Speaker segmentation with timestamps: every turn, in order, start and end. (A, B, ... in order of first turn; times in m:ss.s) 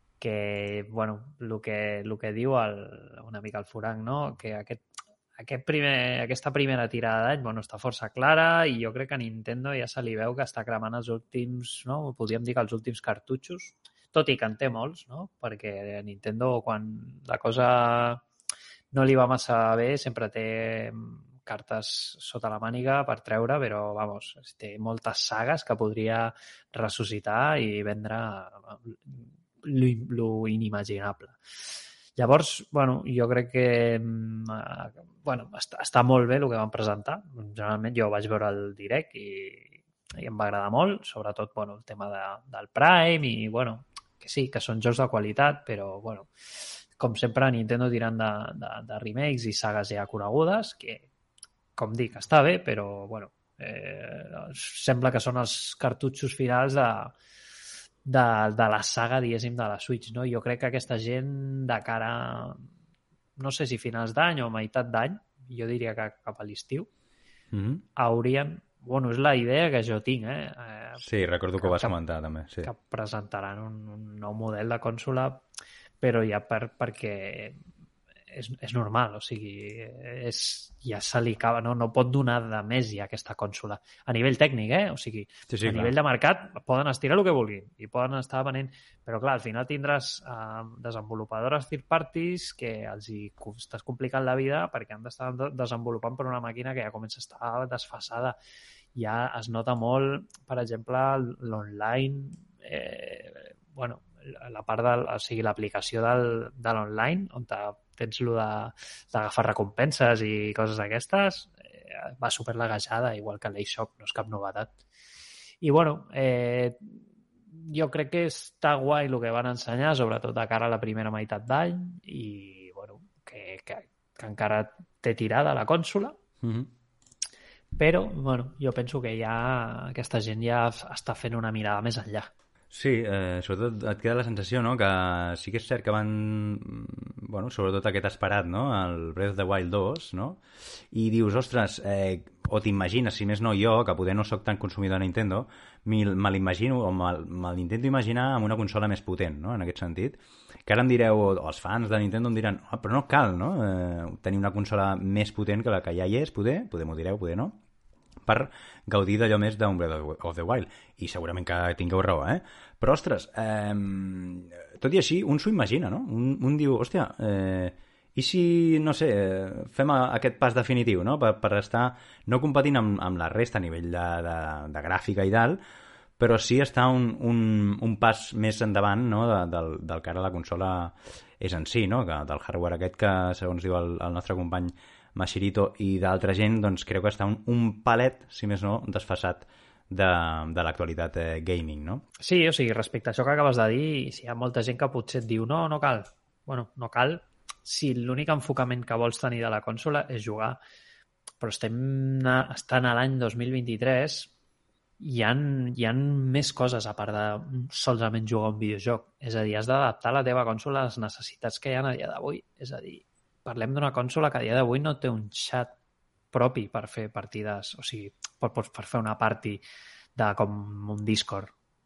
0:00.2-0:04.8 A
0:05.4-0:18.2 A
0:18.9-0:46.3 A
0:47.0-0:51.1 A
0:51.8-0:57.2 A
0:58.0-1:02.6 A
1:03.4-1:06.9 A
1:07.5-1:07.8 B
1:08.0-1:11.0 A
1:11.0-1:12.7 B
1:11.6-1:12.0 A
1:12.6-1:15.4 A
1:16.0-1:17.6 A
1:18.3-1:38.4 A
1:25.5-1:25.9 B
1:39.0-1:54.7 A
1:55.6-1:56.9 A
1:57.5-2:06.2 A
2:06.4-2:06.7 B
2:07.8-2:12.3 A
2:12.7-2:20.4 B
2:20.9-2:37.6 B
2:38.3-2:55.6 B
2:56.2-3:12.0 B
3:12.2-3:20.6 A
3:21.4-3:24.3 A
3:25.0-3:35.7 A
3:36.3-3:39.6 A
3:40.2-3:41.5 A